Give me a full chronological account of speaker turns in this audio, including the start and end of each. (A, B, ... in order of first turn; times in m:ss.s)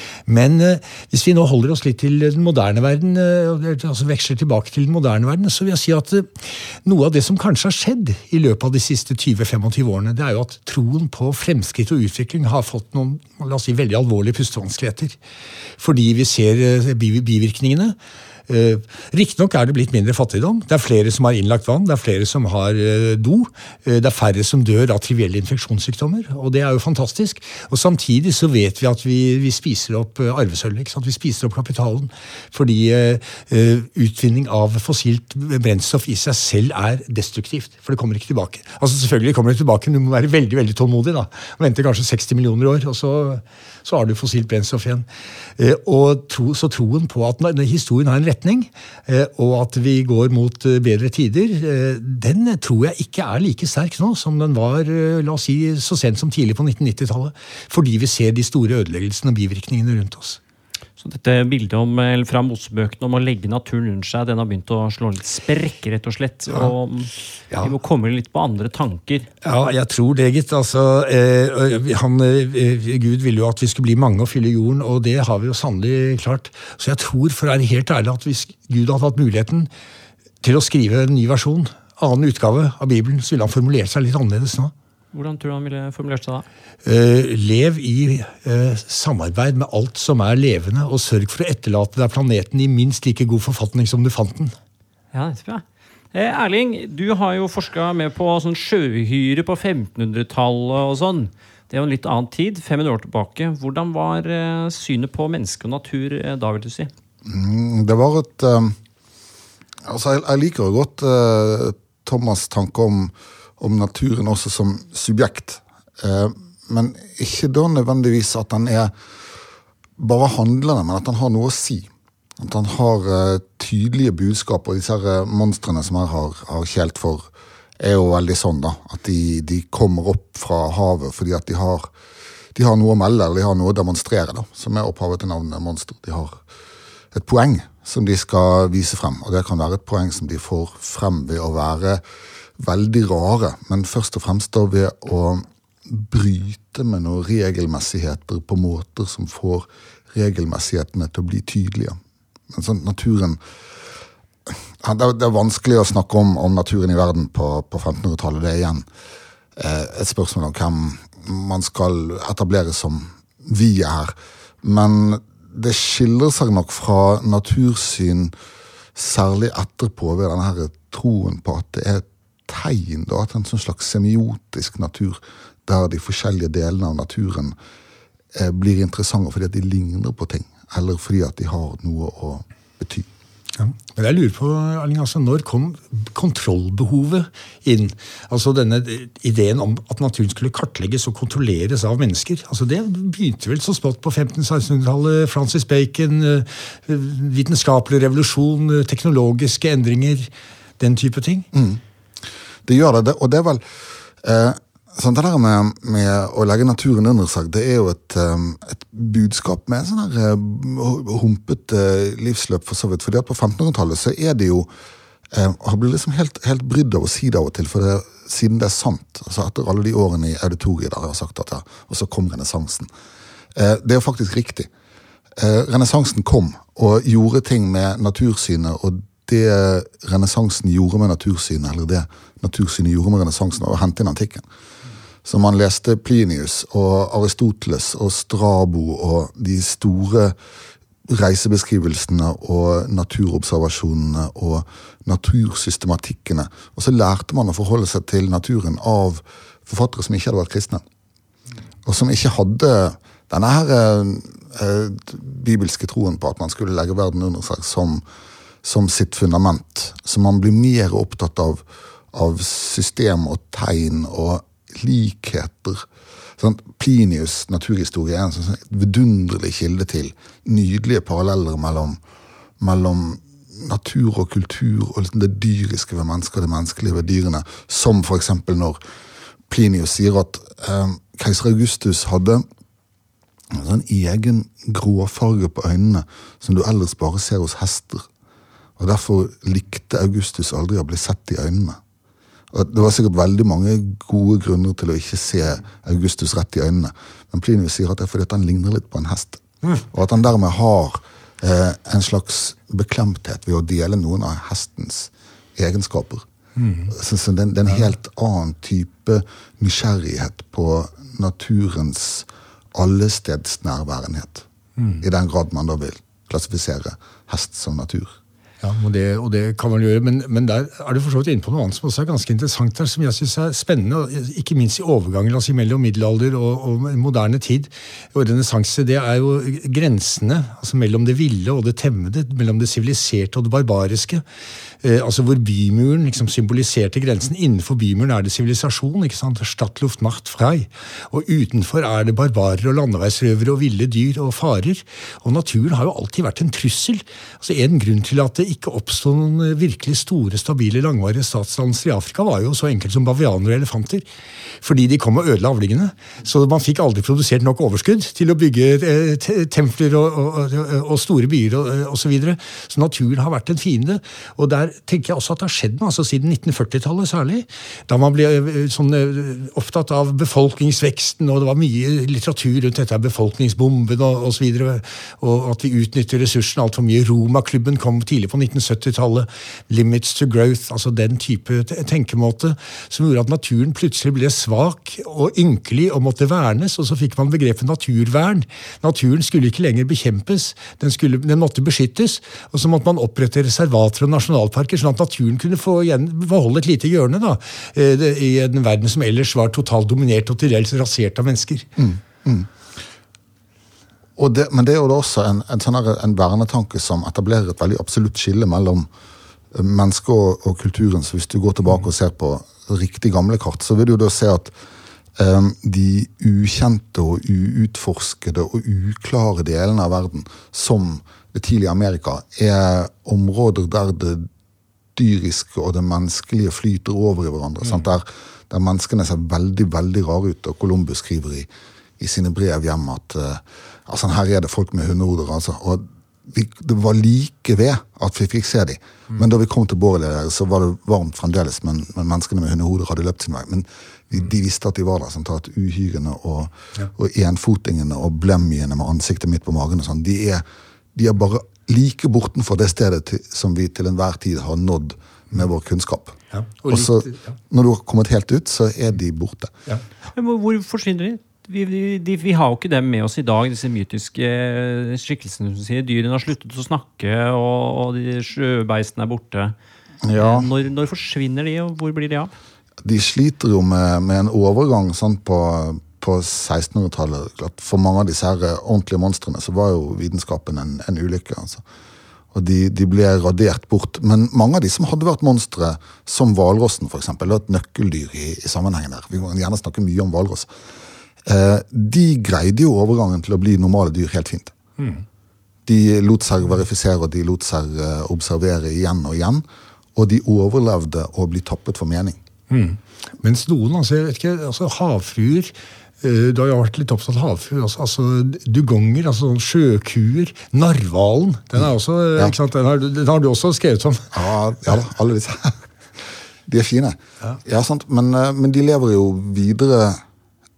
0:00.3-0:15.2 A
0:15.8-0:18.0 A
0:18.5-0:45.1 A
0:45.6-1:00.4 A
1:01.0-1:09.3 B
1:09.4-1:19.7 A
1:20.4-1:24.7 A
1:25.1-1:26.4 B
1:26.8-1:34.6 A
1:35.1-1:46.9 B
1:47.2-1:48.8 C
1:49.9-1:58.9 C
2:00.0-2:07.3 C
2:07.8-2:11.9 C
2:12.6-2:16.4 C
2:17.1-2:22.0 C
2:22.6-2:32.0 C
2:32.5-2:33.4 C
2:34.5-2:38.9 C
2:39.6-2:48.3 C
2:49.0-2:57.6 C
2:58.3-3:03.1 C
3:03.6-3:21.5 A
3:21.5-3:21.8 C
3:22.7-3:23.6 C
3:24.2-3:34.7 C
3:35.3-3:42.9 C
3:43.6-3:44.7 C
3:45.4-3:54.4 C
3:55.2-4:00.4 C
4:01.1-4:10.8 C
4:11.8-4:18.0 C
4:18.6-4:25.9 C
4:26.4-4:32.0 C
4:32.6-4:38.8 C
4:39.5-4:42.4 C
4:43.5-4:48.1 C
4:48.8-4:51.8 C
4:52.5-5:06.2 C
5:06.6-5:06.9 A
5:06.9-5:14.5 C
5:14.8-5:15.0 A
5:15.0-5:18.2 C
5:18.6-5:34.2 A
5:34.8-5:54.1 A
5:54.6-6:41.7 A
6:41.8-6:42.5 C
6:44.2-6:48.9 C
6:49.5-6:54.5 C
6:55.2-7:04.3 C
7:05.0-7:11.5 C
7:12.0-7:30.4 C
7:31.0-7:39.5 C
7:36.3-7:37.2 A
7:40.2-7:49.6 B
7:50.0-7:50.5 C
7:50.1-7:52.3 B
7:52.8-8:01.6 C
8:02.3-8:10.5 C
8:11.2-8:14.6 C
8:14.8-8:15.0 A
8:15.7-8:19.4 C
8:20.0-8:22.2 C
8:22.5-8:34.2 A
8:34.1-8:35.6 C
8:36.5-8:40.0 C